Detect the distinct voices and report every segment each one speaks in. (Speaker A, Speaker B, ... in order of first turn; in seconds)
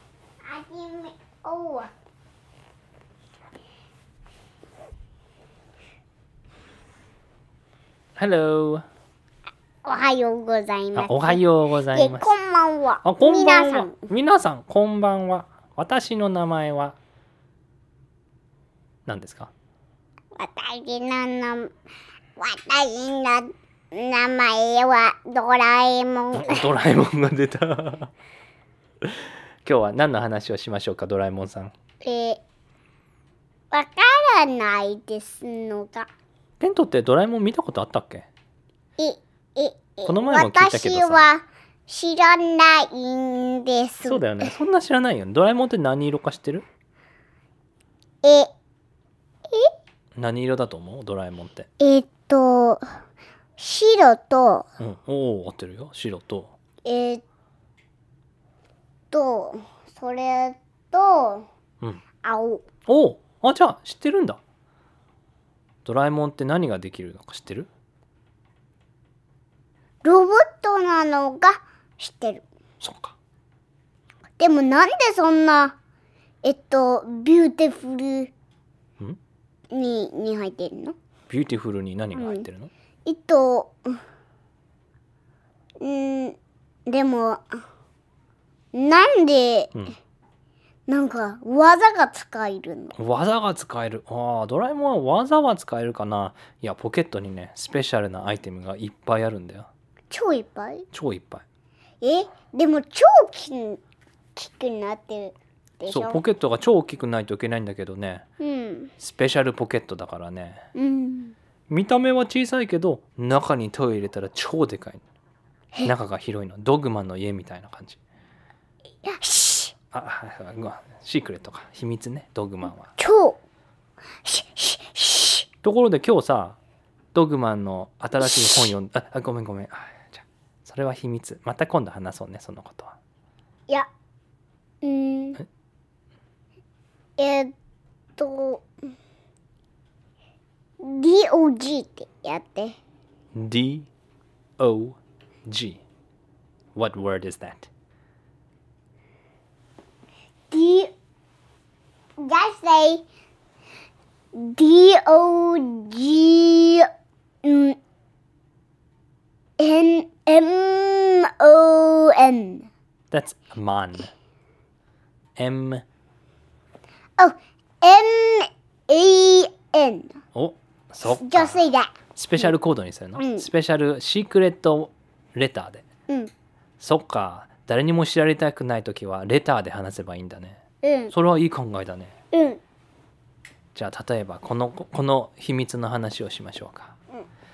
Speaker A: 0.4-1.9, 9.8-11.4, 11.9-13.9, 20.4-21.7, 22.4-26.6, 32.0-32.4, 33.7-36.1, 39.0-44.5, 48.2-48.5, 51.8-52.8, 53.6-54.7, 56.8-57.2, 59.1-61.5, 62.2-62.7, 70.0-72.4, 74.4-75.8, 76.4-78.3, 79.7-81.0, 82.1-82.5, 83.0-84.0, 85.8-87.6, 88.7-89.7, 90.9-92.9, 100.1-100.9, 102.0-103.8, 104.3-106.2, 108.4-108.9, 110.7-111.3, 119.0-119.7, 123.0-123.4, 124.2-125.5, 128.2-128.7, 134.8-135.4, 137.2-137.5, 138.2-138.7, 140.8-142.8, 150.5-150.9, 152.2-153.0, 154.3-156.9, 157.4-157.8, 159.6-162.7, 167.2-170.2, 171.1-172.5, 173.2-173.5, 180.8-181.1, 182.3-182.6
Speaker B: 8.2-8.8, 10.9-12.3, 13.0-16.9, 19.1-19.5, 26.3-28.1, 29.0-31.7, 36.6-38.3, 40.0-41.3, 44.0-46.6, 50.2-51.7, 54.8-56.5, 62.9-64.4, 65.8-67.7, 72.8-73.1, 81.3-82.7, 92.9-99.7, 100.9-101.4, 105.8-108.2, 109.0-110.6, 111.7-115.0, 115.8-118.0, 119.9-122.9, 125.6-126.6, 127.1-132.9, 143.3-143.9, 144.6-145.8, 146.7-147.7, 163.1-164.1, 165.4-165.8, 170.3-171.6, 172.1-175.9, 176.8-180.6, 181.1-182.2, 183.7-186.9